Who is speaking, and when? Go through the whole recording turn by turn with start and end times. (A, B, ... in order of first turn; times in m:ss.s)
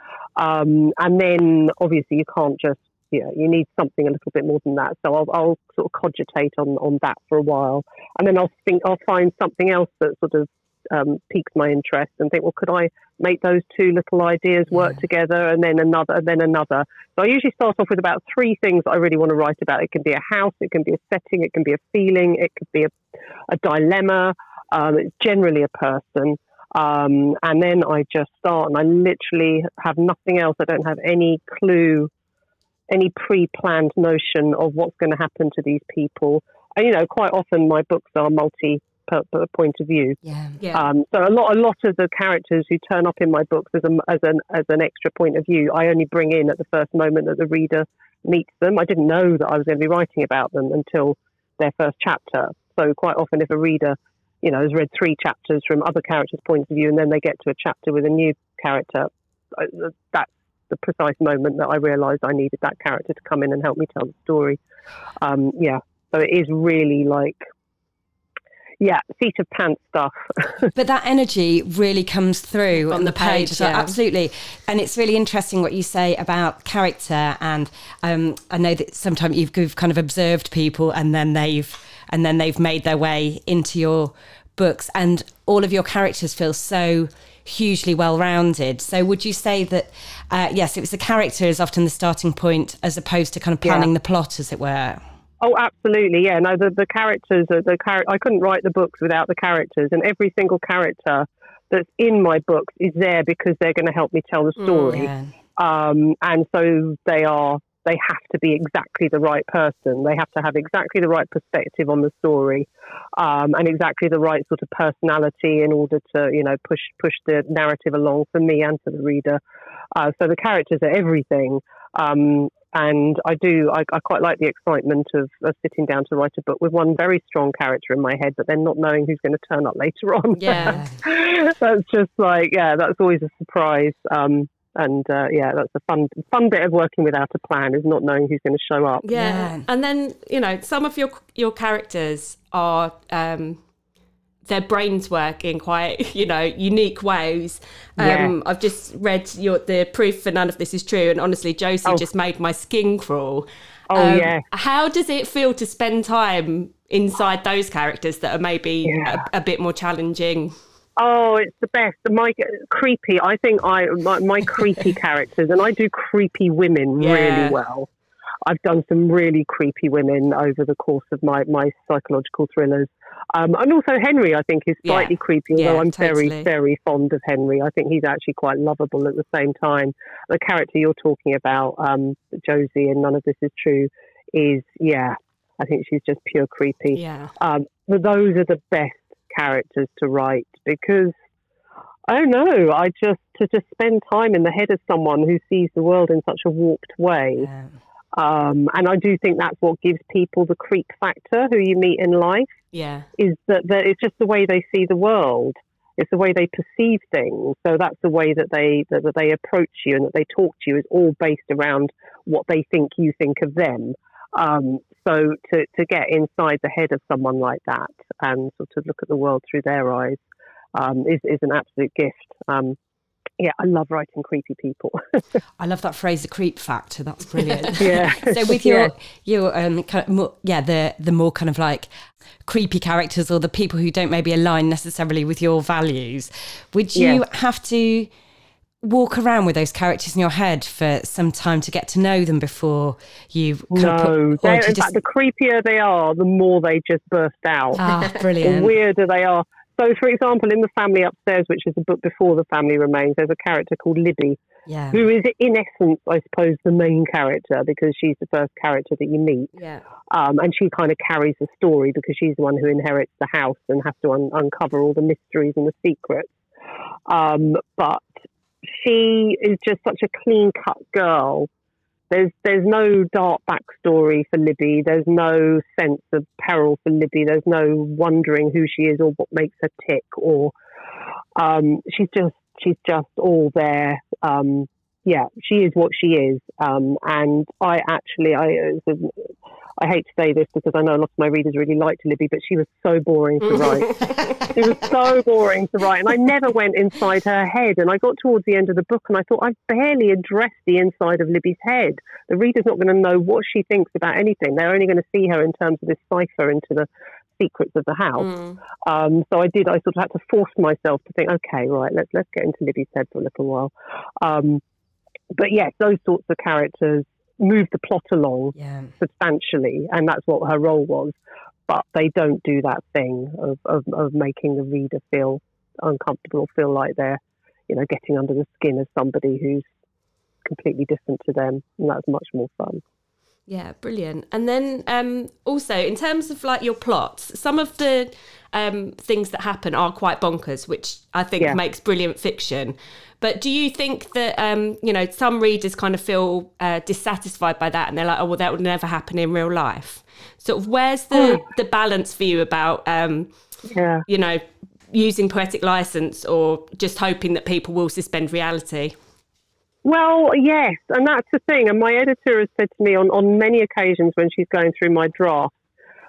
0:00.4-0:23.0 A
0:23.5-0:32.1 A
0:32.9-0:40.2 A
0:40.2-0:40.6 B
0:40.6-0:40.9 C
0:40.7-1:04.6 A
1:05.2-1:07.4 A
1:08.8-1:10.7 A
1:10.7-1:35.0 B
1:12.8-1:14.0 C
1:33.6-1:33.9 A
1:35.4-1:59.4 A
1:44.6-1:45.0 C
1:44.9-1:45.3 B
1:59.9-2:19.1 A
2:10.4-2:10.8 C
2:10.5-2:11.0 B
2:19.0-2:23.6 C
2:19.1-2:19.6 B
2:24.5-2:40.5 C
2:28.0-2:28.3 A
2:33.9-2:34.4 A
2:38.8-2:39.2 A
2:41.0-2:47.9 A
2:47.0-2:47.6 C
2:48.5-3:11.1 A
2:54.9-2:56.5 C
3:06.9-3:07.3 C
3:12.1-3:17.5 A
3:17.4-3:17.7 B
3:18.2-3:22.5 A
3:22.7-3:23.1 C
3:23.2-3:40.2 A
3:40.8-3:42.8 A
3:43.4-3:45.2 A
3:45.6-3:51.9 B
3:47.8-3:48.9 A
3:52.4-3:58.1 B
3:57.0-3:57.2 A
3:58.8-4:04.9 B
4:03.7-4:07.8 A
4:07.8-4:08.7 B
4:08.4-4:14.4 A
4:14.7-4:15.0 B
4:14.9-4:19.5 A
4:20.1-4:26.4 A
4:27.1-4:28.0 A
4:28.7-4:31.5 A
4:32.1-4:40.5 A
4:41.4-5:08.3 A
4:53.5-4:54.6 C
5:08.2-5:08.6 C
5:08.8-5:14.6 A
5:15.3-5:21.2 A
5:18.6-5:18.9 B
5:21.7-5:29.7 A
5:30.4-5:32.8 A
5:33.5-5:53.3 C
5:51.1-5:51.4 A
5:53.7-5:54.0 A
5:54.1-5:59.0 C
5:59.8-6:05.5 A